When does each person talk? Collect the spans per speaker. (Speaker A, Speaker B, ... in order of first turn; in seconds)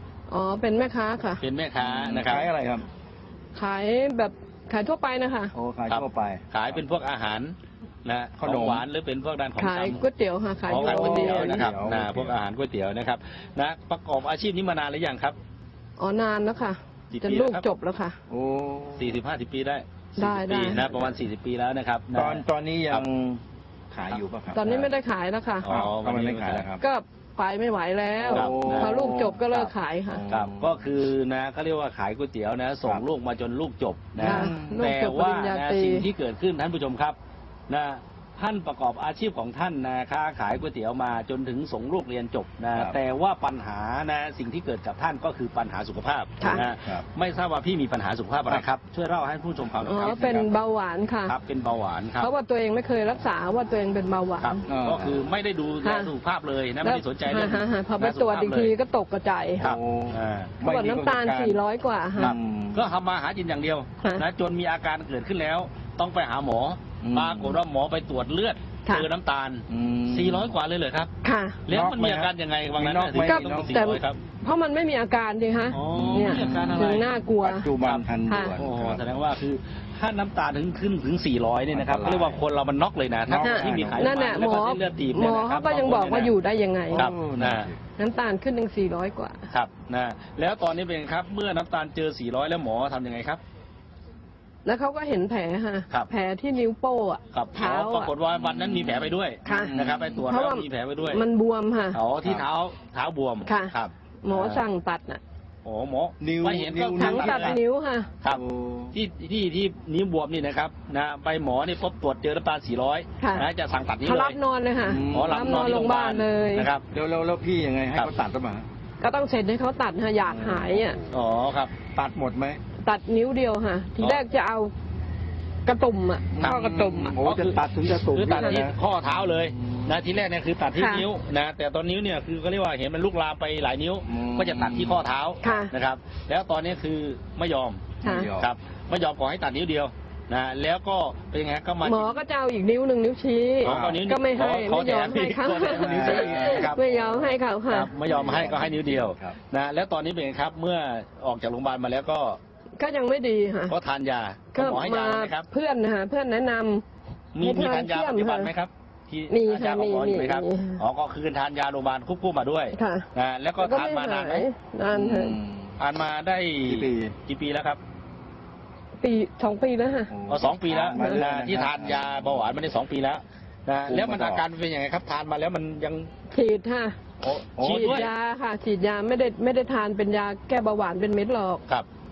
Speaker A: 0.3-1.4, 3.5-5.5, 9.6-11.7, 16.0-18.2, 20.2-21.1, 24.5-25.7, 26.8-30.2, 34.2-36.1, 49.9-51.4, 52.2-54.6, 55.8-56.1, 56.8-59.7, 60.6-62.4, 71.2-71.6, 73.2-77.7, 78.3-78.5, 83.4-87.1, 88.0-89.5, 94.7-98.1, 99.5-99.8, 100.3-102.0, 103.5-105.2, 107.0-108.1, 113.2-113.5, 114.0-116.7, 119.0-121.0, 122.8-124.7, 125.7-127.1, 128.3-128.6, 130.8-131.1, 135.4-135.7, 138.0-138.3, 141.8-147.9, 152.8-153.8, 154.5-156.8, 157.4-158.5, 159.3-160.8, 162.7-163.1, 163.6-165.4, 169.0-170.1, 176.3-177.0, 177.6-181.6
Speaker B: 1.4-2.5, 5.9-10.0, 10.7-15.4, 17.1-17.6, 19.0-23.0, 25.6-26.6, 28.3-29.7, 30.3-37.2, 37.7-50.5, 51.3-52.3, 54.4-58.7, 59.6-60.6, 62.2-71.1, 71.7-74.2, 75.7-77.1, 77.8-78.1, 78.6-86.3, 86.9-87.7, 89.5-93.4, 97.3-101.2, 101.9-104.6, 105.6-107.6, 108.9-114.4, 115.0-116.9, 121.1-121.8, 126.4-142.2, 143.6-146.8, 147.7-152.4, 153.7-155.4, 157.3-164.5, 165.8-167.8, 170.3-176.1, 177.6-178.1
Speaker C: 1.8-2.9, 5.5-6.8, 8.4-8.8, 10.8-12.4, 18.3-19.2, 22.1-24.9, 25.7-26.8, 28.2-30.8, 34.2-34.8, 42.8-43.0, 46.5-47.0, 54.7-55.2, 59.6-61.6, 62.2-62.9, 67.0-67.6, 69.7-70.5, 71.7-73.8, 75.9-79.0, 81.7-82.4, 83.3-84.2, 86.9-87.8, 98.3-100.3, 106.2-107.6, 108.3-109.0, 114.8-115.4, 116.9-118.7, 120.2-121.2, 121.9-122.6, 126.3-128.8, 129.4-129.9, 134.1-135.1, 138.0-138.5, 143.7-144.1, 145.7-147.4, 148.1-149.4, 164.9-165.8, 166.7-167.2, 170.1-172.6, 173.9-174.4, 177.2-178.1